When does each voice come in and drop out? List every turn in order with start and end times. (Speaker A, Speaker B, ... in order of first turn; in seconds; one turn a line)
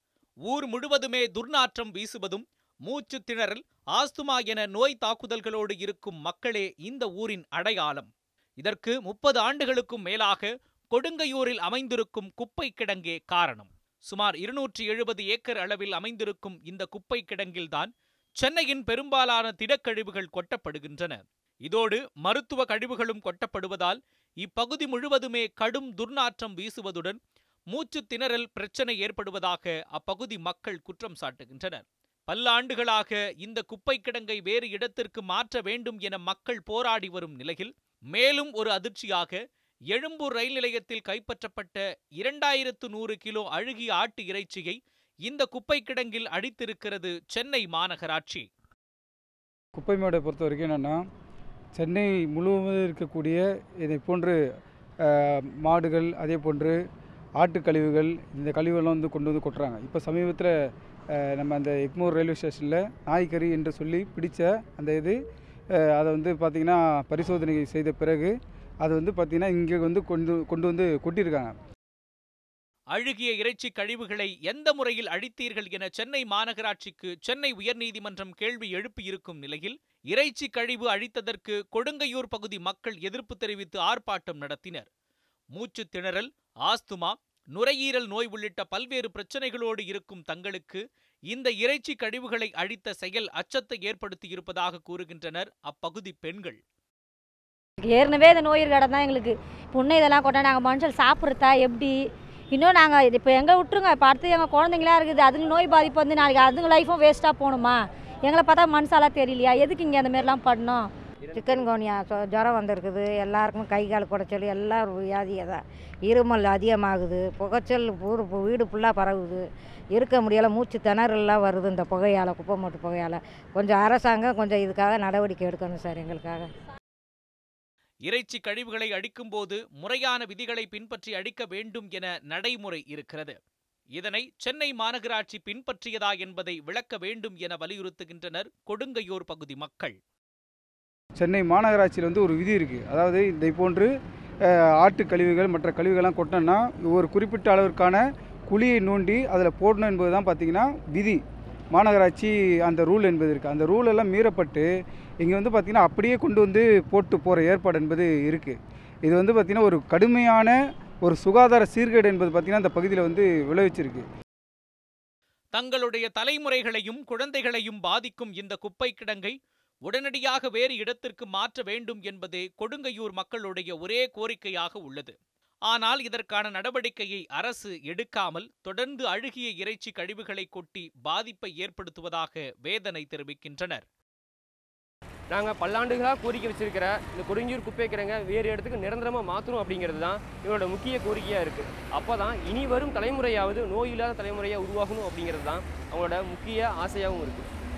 Speaker A: 0.5-8.1
Speaker A: 8.6-27.2
Speaker A: 27.7-39.4
Speaker A: 39.9-48.5
Speaker B: 49.8-51.0
Speaker B: 51.8-54.4
Speaker B: 55.0-56.8
Speaker B: 57.4-60.5
Speaker B: 61.1-65.2
Speaker B: 65.7-71.5
Speaker A: 72.9-84.9
Speaker A: 85.5-96.6
Speaker C: 97.8-102.0
Speaker C: 102.5-110.9
Speaker D: 111.3-119.4
Speaker D: 119.9-126.5
Speaker A: 128.1-133.4
Speaker A: 133.9-139.9
Speaker B: 141.2-143.9
Speaker B: 144.5-151.2
Speaker B: 151.7-154.7
Speaker B: 155.2-164.1
Speaker A: 165.5-169.3
Speaker A: 169.9-175.1
Speaker A: 175.7-183.8
Speaker E: 185.3-197.5